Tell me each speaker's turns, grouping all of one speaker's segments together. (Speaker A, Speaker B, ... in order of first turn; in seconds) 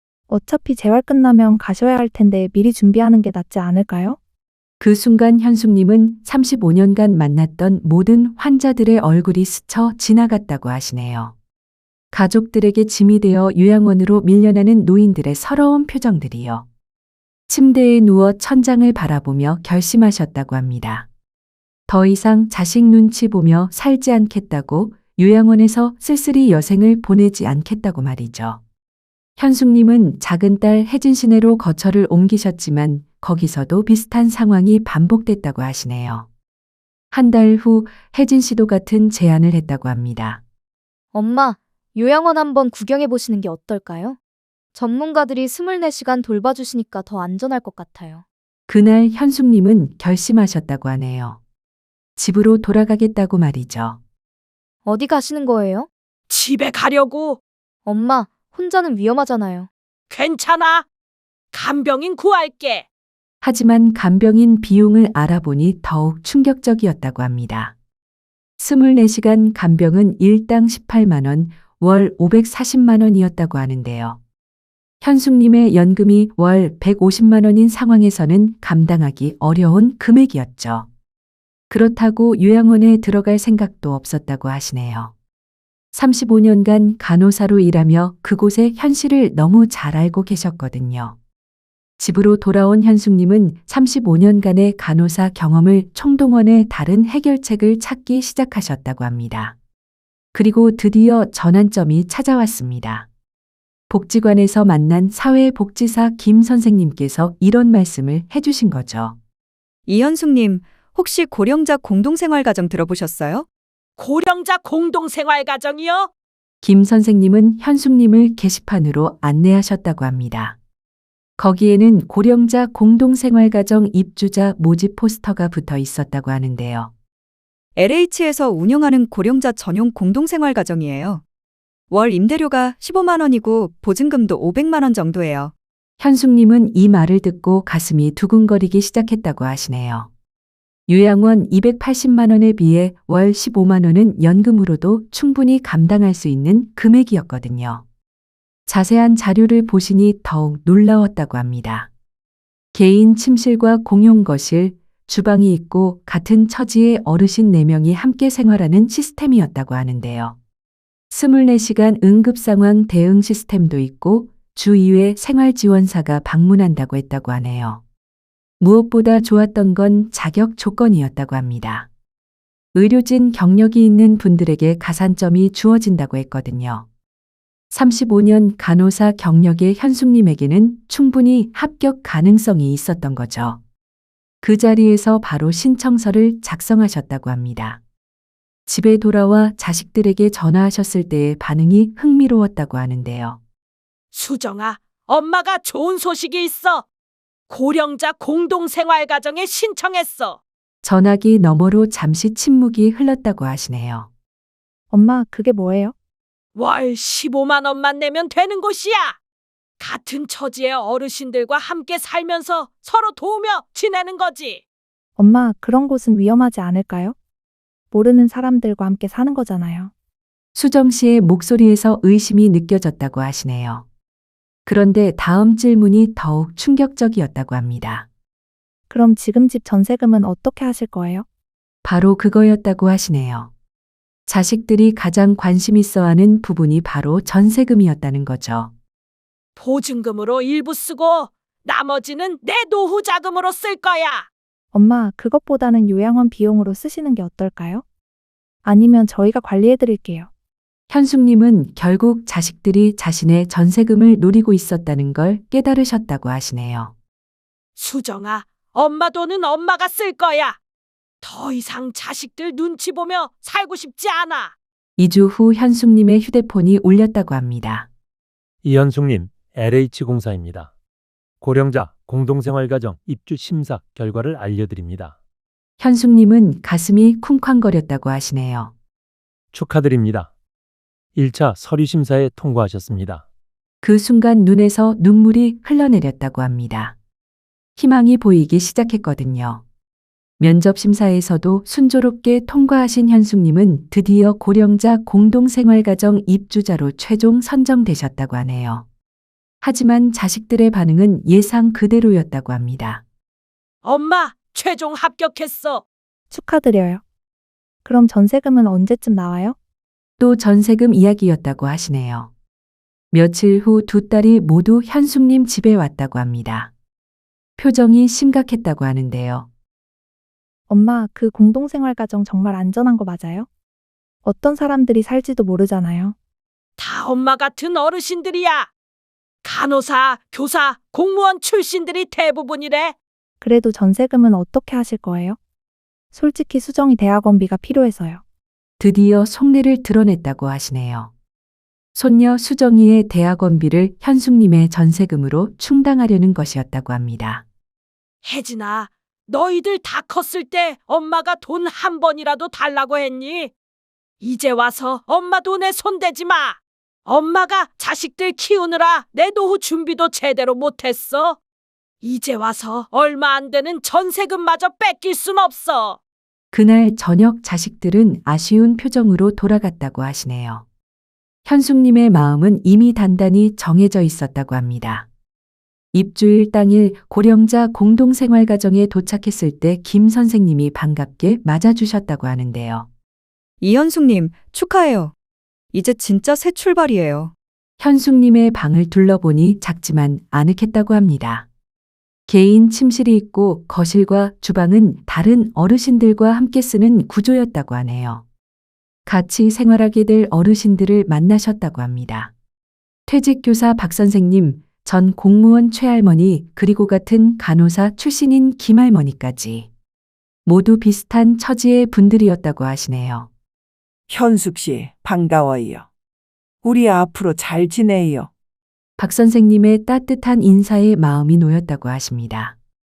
Speaker A: 0.3-4.2, 204.9-205.9, 215.2-217.2, 217.9-219.9, 228.9-231.2, 244.7-247.8, 248.7-250.3, 306.3-307.0, 307.9-309.6, 320.7-323.5, 324.2-326.1, 333.4-335.4, 336.1-338.2
Speaker B: 4.8-11.3, 12.1-16.7, 17.5-21.1, 21.9-28.6, 29.4-36.3, 37.1-40.4, 48.7-51.4, 52.2-54.0, 63.4-67.7, 68.6-74.2, 75.0-80.9, 81.7-85.1, 85.9-91.2, 92.0-99.6, 100.3-103.1, 103.9-109.2, 116.6-120.6, 121.4-126.9, 136.0-140.1, 140.9-147.8, 148.7-151.9, 152.7-160.4, 161.1-167.8, 168.6-171.9, 172.7-176.9, 177.7-183.6, 184.4-187.8, 188.7-193.4, 200.8-204.1, 220.6-223.8, 224.7-228.1, 231.8-233.5, 234.3-238.7, 250.9-256.9, 265.0-267.9, 275.8-278.7, 283.8-287.0, 287.8-289.6, 290.4-298.9, 299.6-303.0, 310.2-312.3, 313.1-316.7, 317.6-319.5, 338.8-341.1, 341.9-347.4, 366.5-370.6, 371.5-375.1, 375.9-382.9, 387.8-391.5, 392.3-398.2, 399.1-402.3, 403.1-409.7, 410.5-413.3, 419.0-422.6
Speaker C: 41.1-44.2, 44.8-48.2, 54.9-55.9, 57.9-59.7
Speaker D: 56.3-57.4, 60.1-60.9, 61.5-62.9, 114.0-116.1, 194.1-196.8, 197.5-200.4, 206.6-209.2, 209.8-214.6, 239.6-244.3, 257.8-260.6, 261.2-264.5, 303.8-305.8, 326.8-328.7, 329.4-332.9, 348.2-353.5, 354.2-361.4, 362.0-366.0
Speaker E: 109.9-110.4, 111.0-113.1, 383.6-385.0, 385.7-387.0
Speaker F: 268.6-270.7, 271.4-275.2, 279.5-280.3, 281.1-283.2
Speaker G: 414.1-415.9, 416.6-418.3